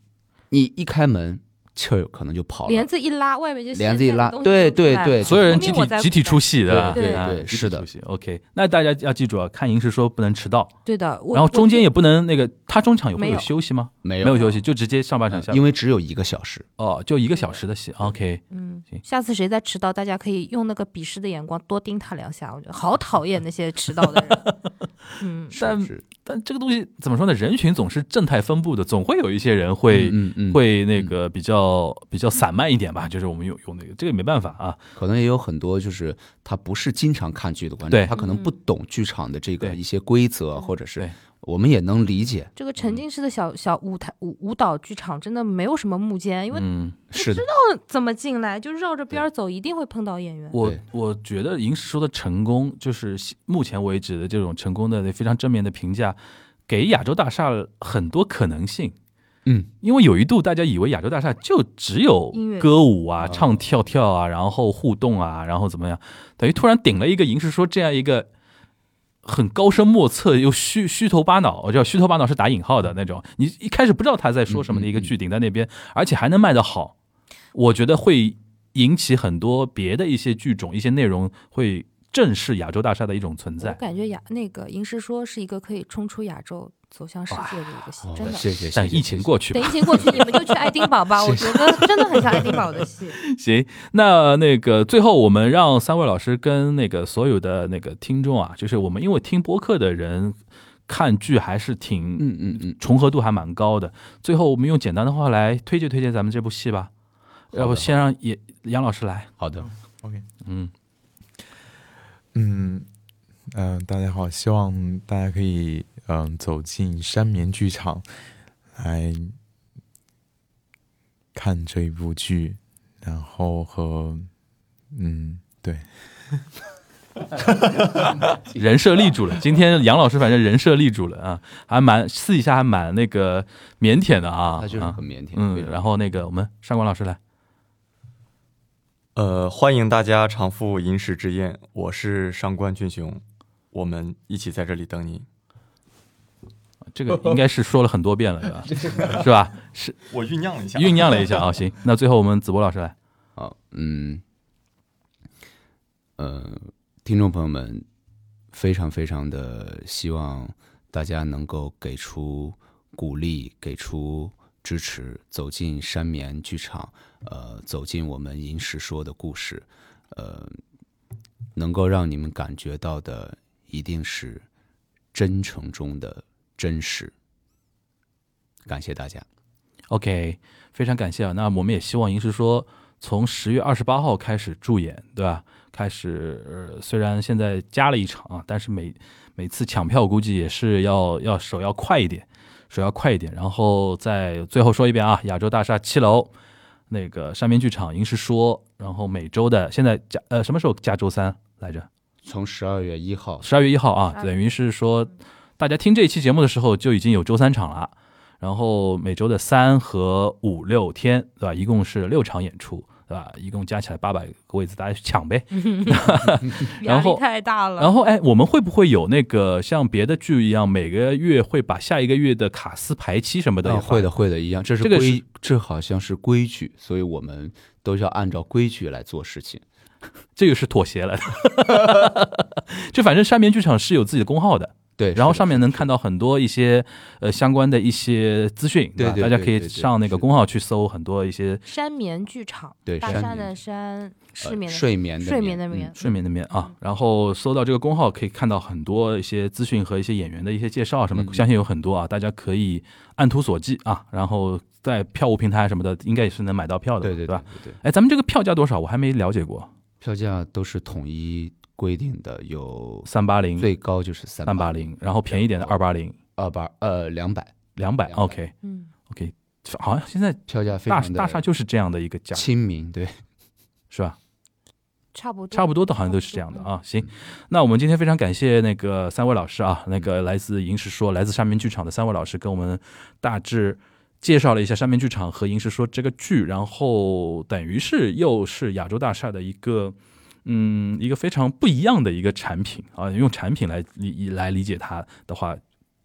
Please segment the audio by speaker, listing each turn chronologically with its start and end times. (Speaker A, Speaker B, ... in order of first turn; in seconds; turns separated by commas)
Speaker A: 0.5-2.9, Speaker B: 2.7-7.3, Speaker A: 3.7-5.8, Speaker C: 5.2-10.7, Speaker A: 6.7-7.8, Speaker B: 10.8-11.9, Speaker C: 11.3-15.6, Speaker B: 13.2-13.5, Speaker A: 14.0-14.6, Speaker A: 15.3-16.7, Speaker C: 16.8-19.0, Speaker B: 18.5-24.5, Speaker C: 24.1-24.6, Speaker B: 25.2-25.6, Speaker A: 25.5-26.0, Speaker C: 25.6-34.8, Speaker A: 29.9-31.1, Speaker A: 34.9-42.5, Speaker C: 37.9-38.1, Speaker B: 38.1-38.5, Speaker B: 42.5-50.6, Speaker C: 46.5-47.0, Speaker A: 47.1-47.5, Speaker C: 50.5-56.2, Speaker C: 56.7-58.9, Speaker C: 59.8-68.3, Speaker B: 62.3-62.7, Speaker A: 63.2-63.6, Speaker C: 69.2-76.9, Speaker A: 74.5-75.1, Speaker C: 77.5-83.8, Speaker B: 83.6-88.4, Speaker C: 87.3-87.6, Speaker A: 88.0-89.3, Speaker C: 88.7-90.5, Speaker B: 89.5-93.2, Speaker A: 89.9-90.2, Speaker A: 91.2-92.5, Speaker C: 91.4-92.2, Speaker C: 93.2-100.4, Speaker C: 100.9-106.9, Speaker A: 102.2-102.8, Speaker A: 107.5-107.9, Speaker C: 107.5-109.3, Speaker A: 109.4-109.7, Speaker D: 109.6-110.2, Speaker C: 110.4-110.7, Speaker D: 112.3-112.9, Speaker D: 113.5-118.1, Speaker D: 118.7-119.3, Speaker D: 121.3-124.3, Speaker D: 124.9-126.4, Speaker C: 128.0-137.2, Speaker A: 134.5-135.8, Speaker E: 139.2-145.2, Speaker C: 146.9-150.1, Speaker E: 150.1-151.5, Speaker C: 150.7-152.9, Speaker A: 153.3-154.2, Speaker A: 156.2-157.8, Speaker A: 158.5-170.6, Speaker A: 171.6-174.4, Speaker A: 175.1-177.1, Speaker A: 178.7-179.2, Speaker C: 179.9-196.3, Speaker C: 196.9-201.9, Speaker A: 202.2-203.4, Speaker C: 203.4-217.2, Speaker B: 204.1-204.5, Speaker B: 215.5-217.9, Speaker C: 217.8-224.1, Speaker A: 223.6-229.6, Speaker C: 224.8-225.2, Speaker C: 230.3-241.6, Speaker A: 235.0-235.9, Speaker A: 239.0-240.2, Speaker B: 241.7-246.0, Speaker A: 242.8-243.5, Speaker A: 244.4-245.9, Speaker C: 246.0-259.7, Speaker A: 251.1-251.4, Speaker A: 257.0-257.8, Speaker A: 260.0-265.7, Speaker C: 263.1-263.7, Speaker C: 264.5-266.1, Speaker A: 266.4-268.4, Speaker C: 267.8-268.5, Speaker B: 268.6-268.9, Speaker C: 269.1-272.4, Speaker A: 270.5-271.4, Speaker A: 272.3-273.2, Speaker C: 273.9-274.2, Speaker B: 275.1-276.7, Speaker C: 275.5-289.9, Speaker C: 290.4-295.6